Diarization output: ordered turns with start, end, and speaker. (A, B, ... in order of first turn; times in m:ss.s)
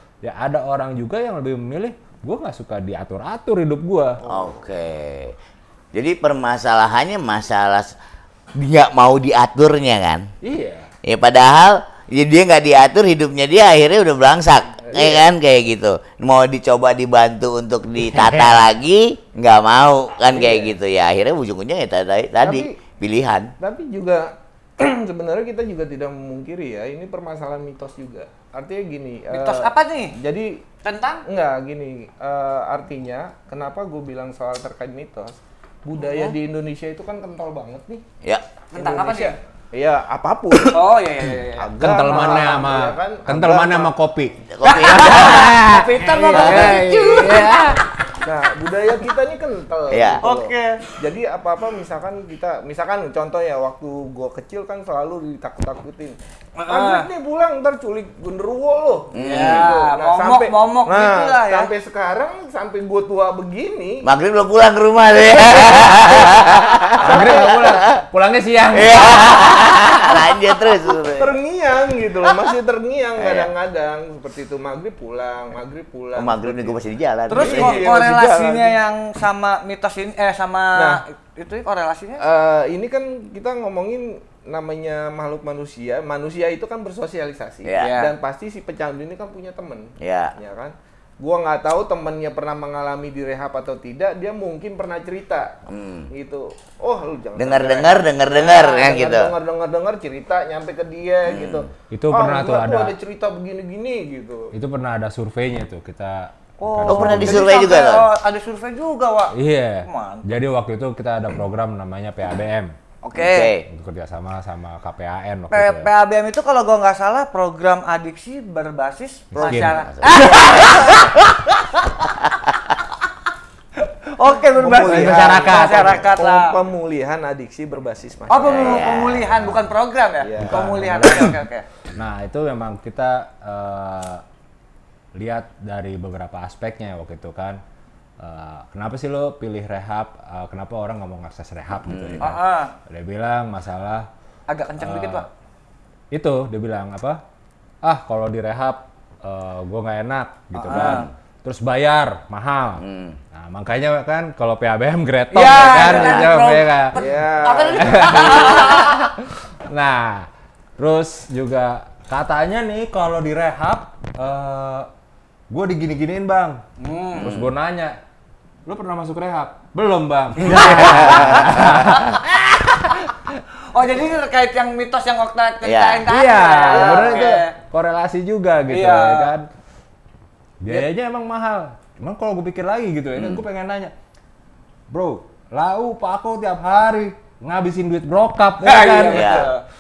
0:00.2-0:04.2 A
0:04.2-0:04.5 B
0:04.2-0:05.4 C
0:05.9-0:07.9 C
0:08.6-0:10.3 C
0:10.4-0:10.9 A
0:11.0-0:23.5 C
0:14.8-0:15.2 B
0:18.2-0:18.6 A
0:20.3-0:20.7 B
0:22.4-0:22.8 B
0:23.6-0:30.6 B
0:29.3-0:30.2 D
0:30.8-0:31.2 D
0:31.3-0:38.0 B
0:36.0-0:36.3 D
0:38.7-0:39.4 D
0:38.8-0:40.8 B
0:40.7-0:41.7 D
0:41.6-0:43.9 B
0:41.8-0:44.4 A
0:44.5-0:46.9 C
0:44.6-0:47.8 D
0:45.8-0:47.5 B
0:46.2-0:47.8 A
0:48.2-0:56.2 B
0:49.9-0:50.2 C
0:50.2-0:50.9 D
0:56.6-0:57.1 D
0:56.7-1:04.1 B
0:59.1-0:59.8 C
0:59.2-1:01.7 D
1:04.0-1:08.0 C
1:07.0-1:07.8 B
1:07.0-1:09.2 A
1:08.7-1:11.4 C
1:11.2-1:16.8 B
1:13.2-1:13.5 C
1:16.2-1:17.9 C
1:17.3-1:22.2 D
1:17.3-1:18.8 B
1:20.8-1:21.0 B
1:22.2-1:35.6 B
1:27.6-1:27.9 C
1:27.8-1:28.1 D
1:30.0-1:30.3 C
1:35.7-1:36.1 C
1:36.1-1:44.5 B
1:37.4-1:39.3 C
1:41.3-1:41.7 C
1:41.9-1:43.0 A
1:44.5-1:47.5 A
1:46.6-1:50.2 D
1:46.9-1:48.1 C
1:49.4-1:52.7 A
1:53.0-1:53.5 D
1:53.2-1:53.7 C
1:53.7-1:55.9 A
1:55.5-2:02.6 D
1:59.3-1:59.8 A
1:59.4-2:01.1 C
2:03.8-2:06.6 D
2:04.6-2:08.9 B
2:04.9-2:06.1 A
2:08.3-2:11.6 D
2:08.5-2:09.3 C
2:09.3-2:09.6 A
2:10.2-2:10.6 B
2:10.4-2:14.2 A
2:15.2-2:17.6 A
2:18.2-2:24.1 A
2:21.8-2:22.3 C
2:22.2-2:22.7 D
2:24.5-2:25.3 D
2:24.8-2:25.3 A
2:26.1-2:27.2 A
2:27.8-2:37.0 A
2:30.5-2:31.1 D
2:30.7-2:31.1 C
2:32.8-2:33.2 C
2:35.3-2:39.0 D
2:37.0-2:38.6 B
2:37.8-2:44.9 A
2:45.5-2:46.6 A
2:46.8-2:47.3 D
2:47.2-2:48.0 A
2:47.2-2:47.5 C
2:48.7-2:53.1 A
2:50.7-2:51.8 C
2:50.7-2:52.2 D
2:53.7-2:57.5 D
2:55.6-2:56.1 C
2:56.1-2:59.5 A
2:58.7-2:59.3 D
3:00.6-3:03.9 A
3:03.2-3:03.4 C
3:04.9-3:09.4 A
3:08.6-3:09.6 D
3:09.1-3:09.5 C